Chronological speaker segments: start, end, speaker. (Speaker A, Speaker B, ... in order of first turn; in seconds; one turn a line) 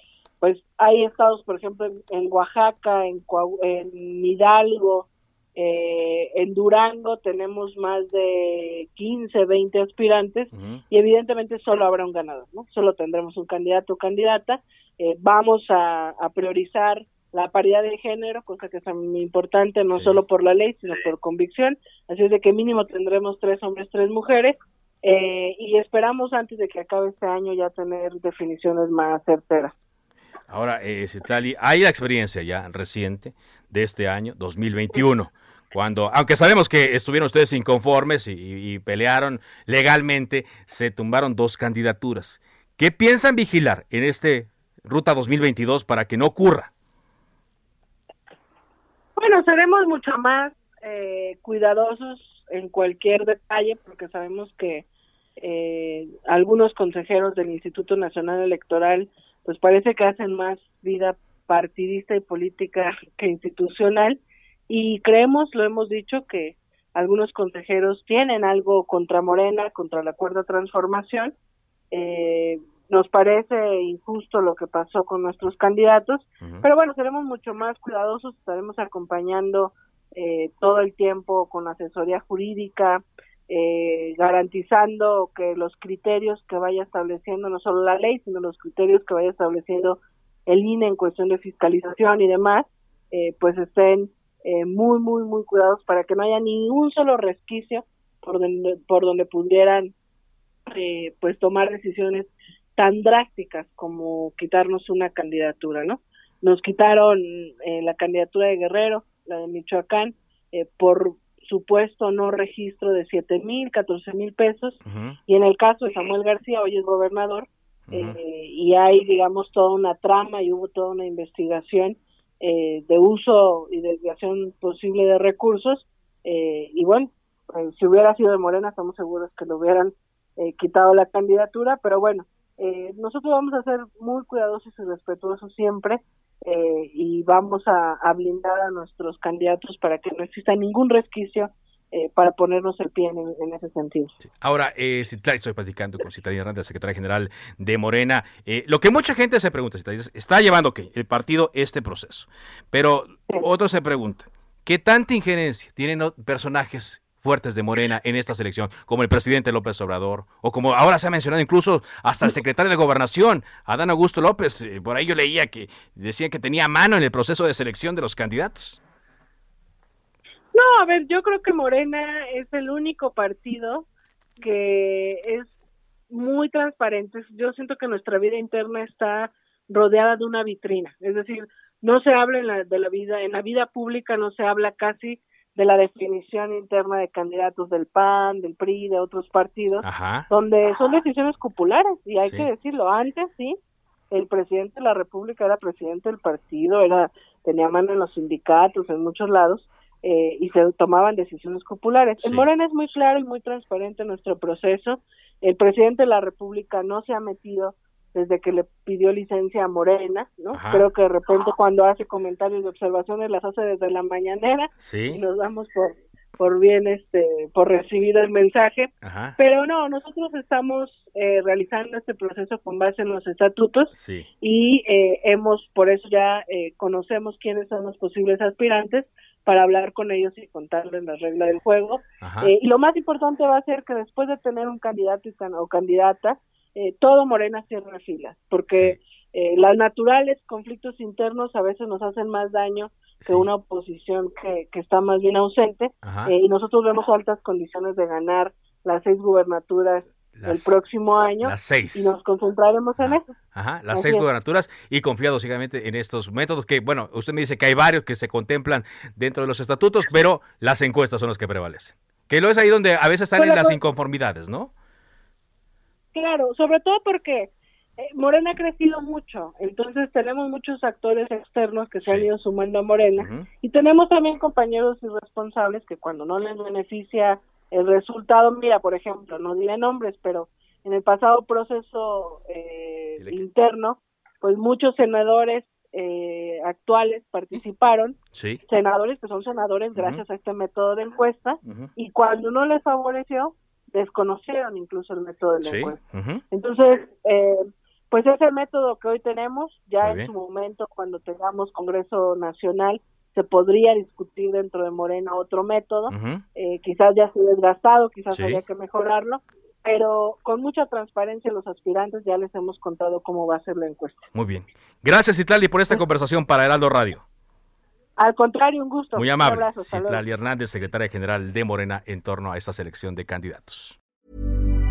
Speaker A: 0.4-29.8
Speaker B: 10.6-10.8
Speaker B: 19.9-20.2
Speaker B: 30.5-46.7
Speaker A: 49.2-54.9
Speaker A: 55.4-71.3
Speaker A: 71.9-99.9
Speaker A: 100.7-144.1
Speaker B: 114.9-115.2
Speaker B: 117.9-118.2
Speaker B: 144.4-168.8
Speaker A: 170.5-173.9
Speaker A: 174.4-175.5
Speaker A: 176.1-193.6
Speaker B: 189.8-190.3
Speaker B: 192.2-192.5
Speaker A: 194.1-253.3
Speaker B: 202.2-202.4
Speaker B: 210.5-210.8
Speaker B: 214.8-215.2
Speaker B: 219.0-219.4
Speaker B: 223.9-224.3
Speaker B: 232.2-232.5
Speaker B: 238.7-239.0
Speaker B: 243.2-243.5
Speaker B: 246.1-246.3
Speaker B: 250.3-250.7
Speaker B: 251.4-252.1
Speaker B: 253.0-264.7
Speaker A: 253.9-254.3
Speaker A: 263.4-263.8
Speaker A: 266.1-288.2
Speaker B: 272.0-272.3
Speaker B: 273.2-273.5
Speaker B: 288.3-288.6
Speaker A: 288.7-296.0
Speaker B: 289.9-290.2
Speaker B: 295.6-296.4
Speaker A: 296.5-314.3
Speaker B: 300.0-300.3
Speaker B: 306.1-306.4
Speaker B: 308.3-308.6
Speaker B: 314.3-317.2
Speaker A: 318.2-320.2
Speaker B: 319.1-324.0